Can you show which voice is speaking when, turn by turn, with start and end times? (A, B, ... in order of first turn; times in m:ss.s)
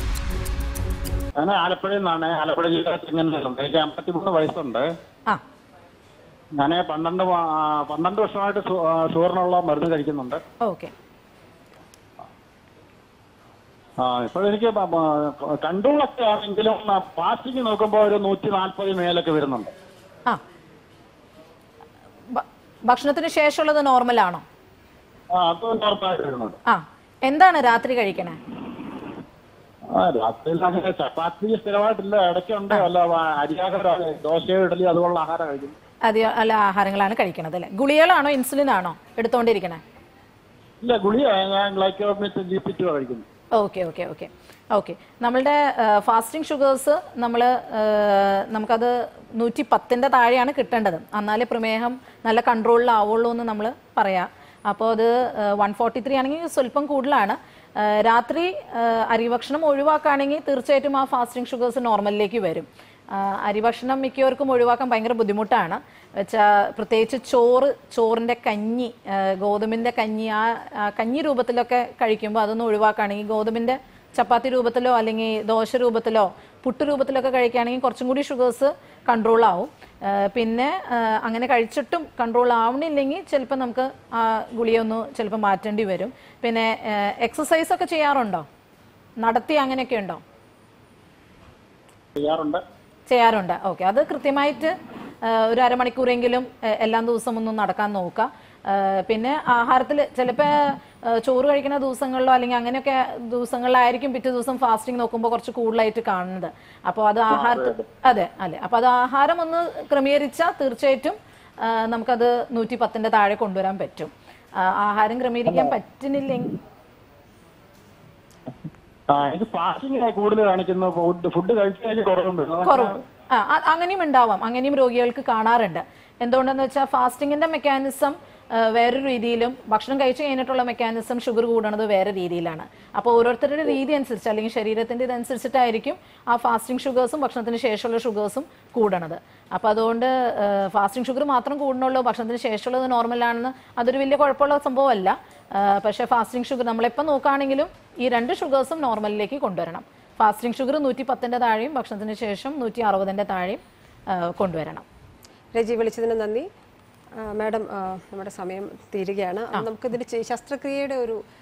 0:01.4-0:04.9 A
0:06.6-0:10.4 A
0:10.6-0:10.9 B
0:14.0-0:19.7 A
0:22.3-0:24.4 B
0:25.3-0:26.6 A
0:26.7-0:28.4 B
0:29.9-0:35.8 A
0:36.0-0:39.8 B
0:40.8-0:43.2 A
0:43.5-1:28.5 B
1:29.2-1:30.2 B
1:32.2-1:32.6 A
1:33.1-1:56.6 B
1:47.3-1:47.8 A
1:59.1-2:03.0 A
2:02.6-2:34.8 B
2:35.5-2:36.5 C
2:37.2-2:41.2 C